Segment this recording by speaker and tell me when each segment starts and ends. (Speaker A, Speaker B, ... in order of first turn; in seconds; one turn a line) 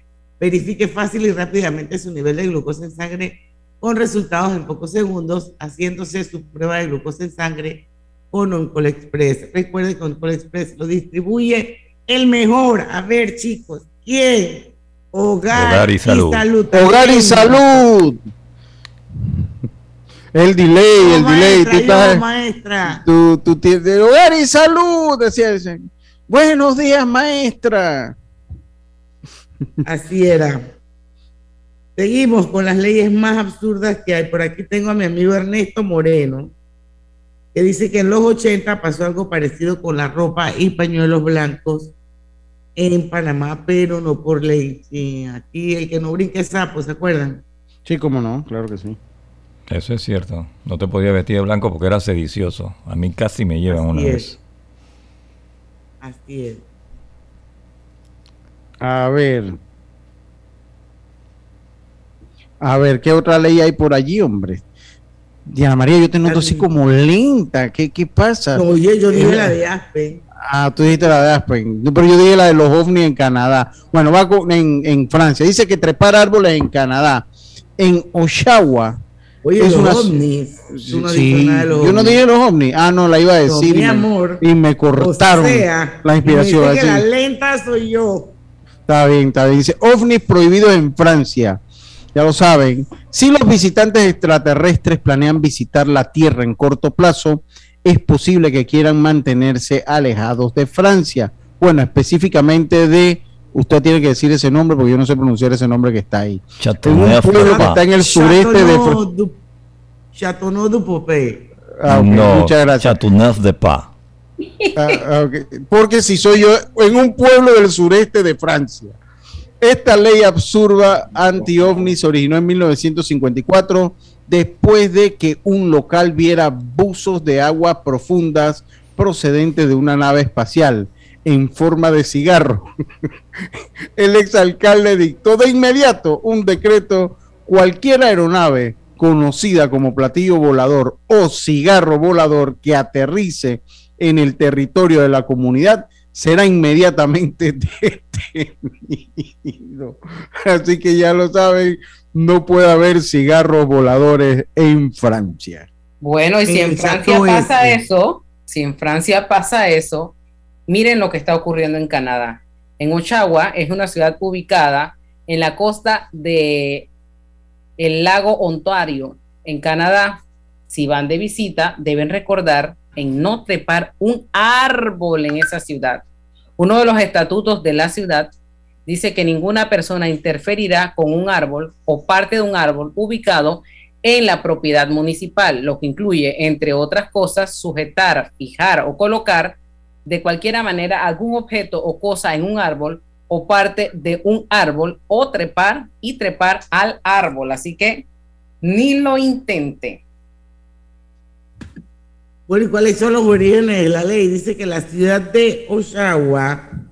Speaker A: 0.4-17.8
Speaker B: 15.5-16.4
Speaker C: 16.7-18.3
Speaker C: 20.3-22.2
Speaker A: 21.0-23.0
Speaker C: 22.9-28.1
Speaker A: 29.9-30.6
Speaker A: 32.0-36.5
Speaker A: 37.5-41.9
Speaker A: 42.8-47.4
Speaker C: 47.9-49.0
Speaker B: 49.7-54.4
Speaker A: 53.7-54.3
Speaker A: 56.0-56.6
Speaker C: 58.8-59.6
Speaker C: 62.6-64.6
Speaker C: 65.5-69.6
Speaker A: 66.3-66.7
Speaker A: 68.5-70.2
Speaker C: 70.4-77.3
Speaker C: 77.8-79.0
Speaker A: 79.4-82.2
Speaker C: 79.6-80.1
Speaker C: 80.7-87.1
Speaker A: 83.5-84.4
Speaker A: 85.0-88.3
Speaker C: 88.9-91.6
Speaker C: 92.1-109.0
Speaker B: 106.6-107.8
Speaker A: 107.3-109.4
Speaker A: 110.1-111.5
Speaker C: 111.8-113.0
Speaker B: 111.9-113.9
Speaker C: 114.8-119.0
Speaker C: 119.6-132.7
Speaker C: 134.0-155.7
Speaker D: 156.0-160.1
Speaker A: 156.5-157.8
Speaker D: 160.7-166.9
Speaker D: 167.8-176.0
Speaker D: 176.6-178.3
Speaker D: 178.9-198.1
Speaker D: 198.6-200.0
Speaker A: 202.5-206.7